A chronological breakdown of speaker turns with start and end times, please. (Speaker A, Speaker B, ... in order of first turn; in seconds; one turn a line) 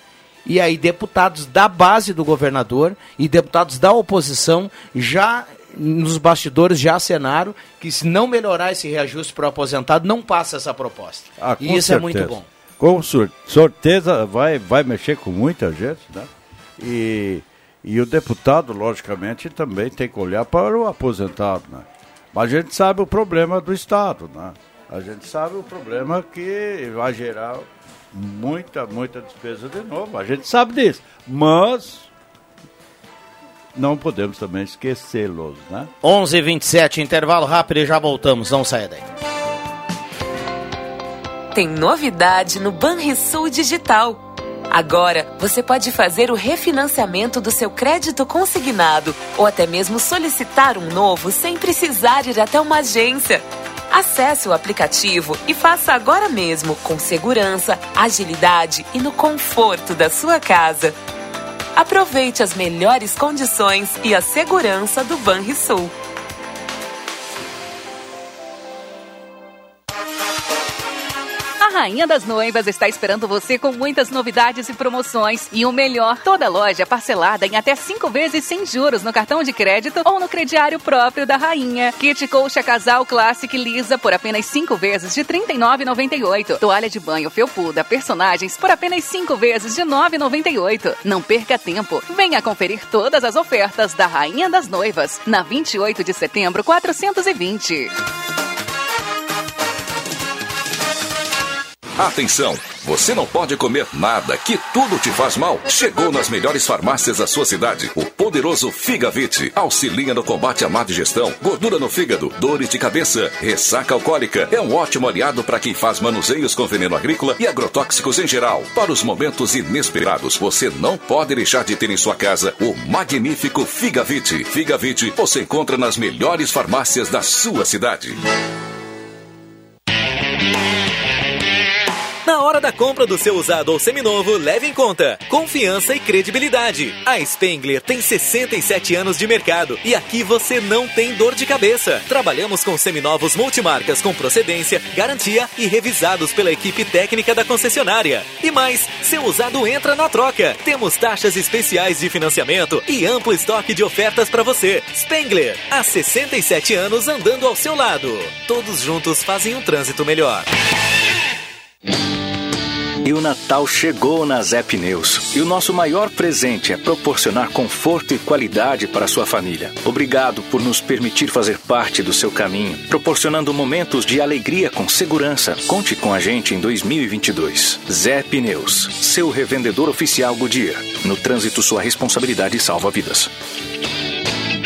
Speaker A: 0.5-12.5
Speaker B: 11.4-32.1
Speaker B: 33.8-35.9
Speaker A: 36.0-39.0
Speaker C: 41.5-61.0
Speaker C: 61.8-65.9
Speaker D: 71.6-97.9
Speaker E: 102.0-128.2
Speaker F: 132.3-160.4
Speaker G: 163.1-183.3